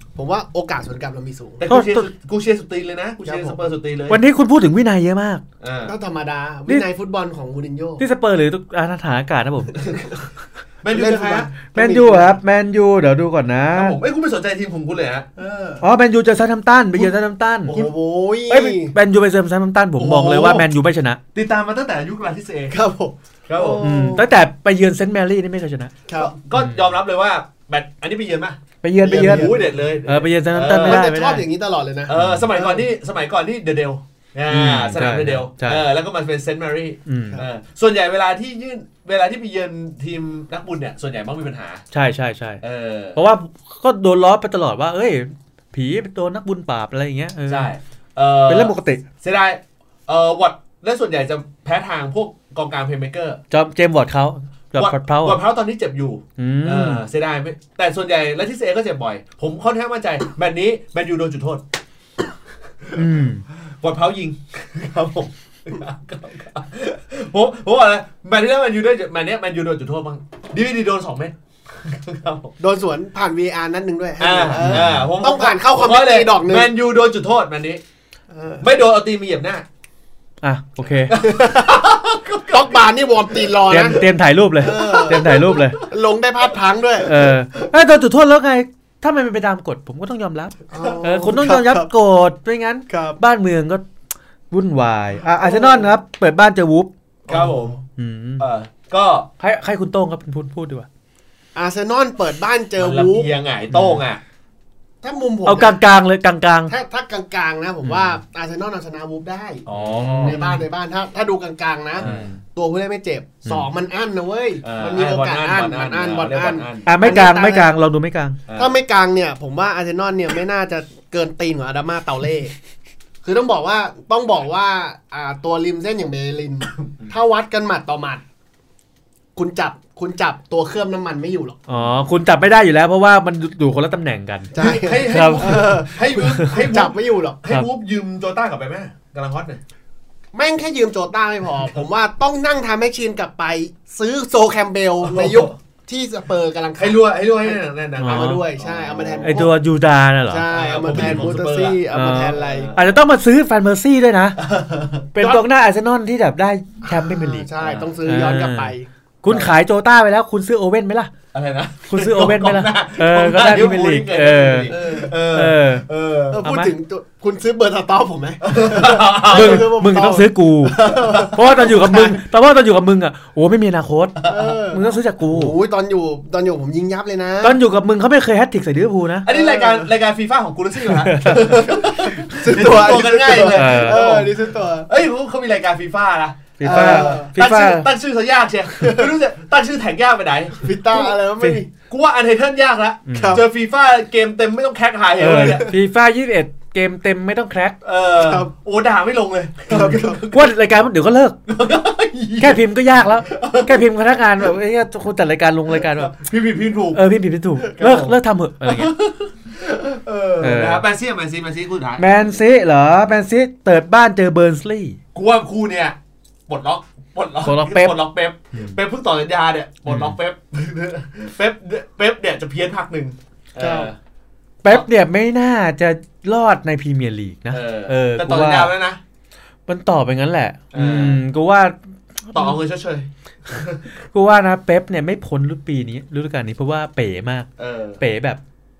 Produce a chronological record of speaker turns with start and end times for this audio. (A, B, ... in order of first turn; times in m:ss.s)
0:00.2-0:01.6 A
0:01.6-0:04.2 B
0:01.7-0:02.1 C
0:03.2-0:03.7 A
0:04.1-0:05.4 C
0:05.6-0:05.9 B
0:05.8-0:08.0 A
0:08.0-0:09.9 C
0:09.8-0:10.2 A
0:10.8-0:11.5 B
0:10.9-0:12.4 A
0:11.7-0:14.0 C
0:13.7-0:15.4 B
0:15.4-0:15.8 A
0:15.8-0:17.8 C
0:17.7-0:18.9 A
0:18.5-0:21.2 C
0:20.0-0:20.7 B
0:21.3-0:22.8 B
0:22.7-0:24.2 A
0:23.5-0:23.8 B
0:23.8-0:25.9 C
0:26.1-0:26.3 A
0:26.2-0:31.1 B
0:28.8-0:29.5 C
0:29.0-0:29.8 A
0:30.0-0:31.4 C
0:30.6-0:32.8 A
0:32.1-0:41.8 B
0:32.2-0:32.4 C
0:34.5-0:35.8 C
0:37.1-0:37.4 C
0:41.9-0:42.6 C
0:42.6-0:43.2 B
0:43.1-0:47.7 C
0:47.5-0:53.4 B
0:48.5-0:49.0 C
0:53.5-0:55.4 C
0:54.7-1:01.6 B
0:56.4-0:57.0 C
1:02.9-1:03.4 C
1:03.8-1:12.6 B
1:12.6-1:16.7 A
1:14.2-1:17.8 B
1:14.6-1:15.0 C
1:18.3-1:18.6 A
1:18.6-1:19.6 B
1:20.4-1:21.2 C
1:21.1-1:22.8 B
1:21.1-1:21.9 A
1:22.5-1:24.1 A
1:23.7-1:25.8 C
1:24.6-1:27.1 A
1:24.6-1:25.8 B
1:27.0-1:33.8 C
1:30.7-1:31.9 A
1:32.9-1:33.2 A
1:34.5-1:36.9 C
1:35.4-1:35.9 A
1:37.3-1:37.8 B
1:37.3-1:37.7 A
1:38.0-1:38.5 C
1:38.4-1:39.3 B
1:39.4-1:40.9 C
1:41.6-1:43.3 A
1:42.8-1:44.2 B
1:43.7-1:44.0 C
1:45.0-1:45.8 A
1:45.4-1:46.7 C
1:46.7-1:49.6 A
1:47.8-1:48.2 C
1:49.6-1:50.6 B
1:49.7-1:50.6 C
1:50.2-1:57.7 A
1:52.0-1:52.3 B
1:52.0-1:52.4 C
1:54.6-1:57.0 B
1:56.8-1:58.4 C
1:58.5-1:58.7 B
1:58.5-2:02.5 A
2:03.2-2:08.2 A
2:09.4-2:11.6 A
2:11.7-2:16.6 C
2:14.5-2:17.4 A
2:14.6-2:19.6 B
2:20.3-2:29.5 A
2:25.0-2:25.5 B
2:26.8-2:29.4 B
2:28.0-2:28.4 C
2:29.2-2:31.3 C
2:30.3-2:32.7 A
2:30.5-2:32.9 B
2:31.9-2:34.4 C
2:34.4-2:35.1 B
2:35.1-2:37.5 C
2:36.9-2:39.5 A
2:37.6-2:38.0 B
2:38.0-2:41.1 C
2:41.3-2:46.4 B
2:41.9-2:44.7 C
2:44.7-2:45.1 A
2:45.3-2:45.8 C
2:46.3-2:52.2 A
2:46.4-2:46.7 C
2:48.4-2:49.7 B
2:49.2-2:55.6 C
2:50.8-2:51.6 B
2:54.2-2:54.5 B
2:54.2-2:57.6 A
2:57.4-2:59.3 C
2:59.2-3:11.0 B
2:59.3-2:59.9 A
3:00.9-3:01.7 C
3:01.2-3:04.9 A
3:02.2-3:02.9 C
3:03.4-3:04.2 C
3:06.6-3:07.9 C
3:06.6-3:07.3 A
3:08.7-3:09.1 A
3:10.6-3:11.7 A
3:11.9-3:15.8 B
3:13.1-3:13.4 C
3:13.1-3:13.4 A
3:15.2-3:17.8 C
3:15.2-3:15.8 A
3:17.8-3:20.5 B
3:18.2-3:18.5 A
3:19.7-3:20.2 A
3:20.3-3:21.4 C
3:21.5-3:22.6 B
3:22.4-3:26.1 C
3:23.2-3:23.8 B
3:25.8-3:27.0 B
3:26.9-3:28.9 C
3:27.7-3:32.1 B
3:30.4-3:30.8 C
3:32.0-3:35.0 C
3:35.1-3:36.0 B
3:36.5-3:44.0 B
3:37.4-3:37.9 C
3:39.9-3:40.2 C
3:43.6-3:43.9 A
3:44.6-3:48.7 C
3:47.5-3:49.0 B
3:49.7-3:52.6 C
3:50.7-3:51.2 B
3:52.3-3:53.8 B
3:54.1-3:57.5 C
3:57.6-3:58.0 B
3:58.0-3:58.4 C